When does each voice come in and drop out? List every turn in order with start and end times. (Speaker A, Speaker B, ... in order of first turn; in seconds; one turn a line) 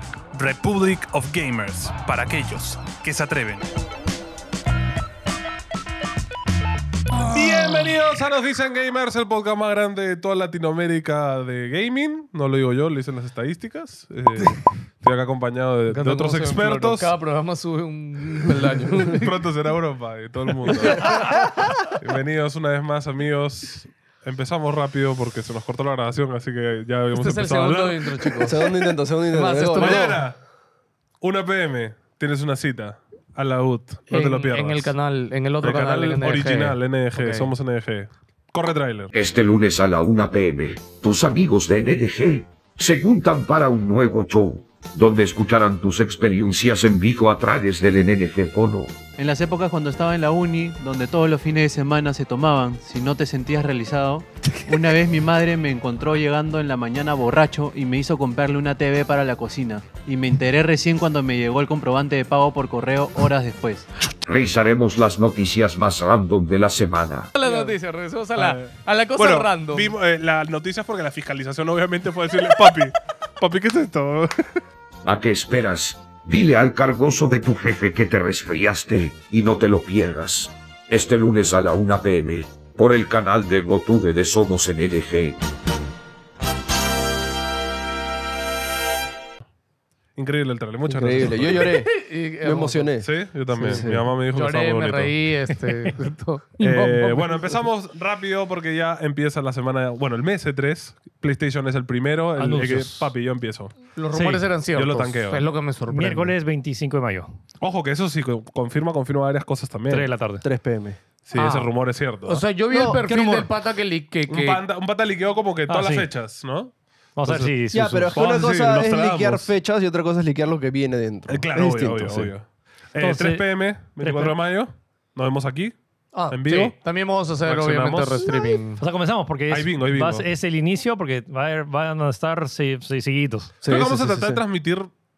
Speaker A: 0.3-3.6
Speaker B: 0.4-2.5
Speaker B: 3.0-3.4
Speaker B: 7.2-17.1
Speaker C: 15.9-19.3
Speaker B: 19.1-28.6
Speaker C: 20.7-21.4
Speaker D: 21.0-21.5
Speaker C: 27.1-28.7
Speaker D: 28.4-30.2
Speaker C: 29.3-30.2
Speaker B: 29.8-30.4
Speaker B: 31.2-34.9
Speaker C: 34.1-37.5
Speaker B: 35.6-39.1
Speaker E: 39.1-48.9
Speaker F: 49.2-63.9
Speaker E: 64.2-67.3
Speaker C: 67.4-69.9
Speaker D: 67.4-67.8
Speaker B: 68.3-74.4
Speaker E: 75.0-85.4
Speaker B: 90.2-91.8
Speaker D: 90.9-94.1
Speaker C: 91.6-92.9
Speaker B: 93.0-95.2
Speaker C: 93.6-97.6
Speaker B: 96.6-103.8
Speaker G: 102.4-103.1
Speaker C: 104.0-106.3
Speaker G: 104.1-104.4
Speaker B: 104.7-105.5
Speaker G: 105.9-107.3
Speaker B: 107.6-110.1
Speaker G: 109.9-110.5
Speaker D: 110.4-111.0
Speaker B: 111.3-112.4
Speaker C: 111.3-111.7
Speaker C: 112.2-114.6
Speaker G: 112.7-113.5
Speaker D: 112.7-113.0
Speaker B: 114.3-117.5
Speaker G: 115.7-116.1
Speaker G: 117.2-118.2
Speaker D: 117.7-122.3
Speaker B: 118.1-119.5
Speaker B: 121.3-125.8
Speaker G: 123.0-123.5
Speaker G: 124.0-124.3
Speaker C: 126.1-128.8
Speaker B: 126.3-126.8
Speaker B: 127.4-128.3
Speaker G: 128.8-133.5
Speaker B: 129.5-130.2
Speaker D: 133.6-134.4
Speaker B: 133.7-134.9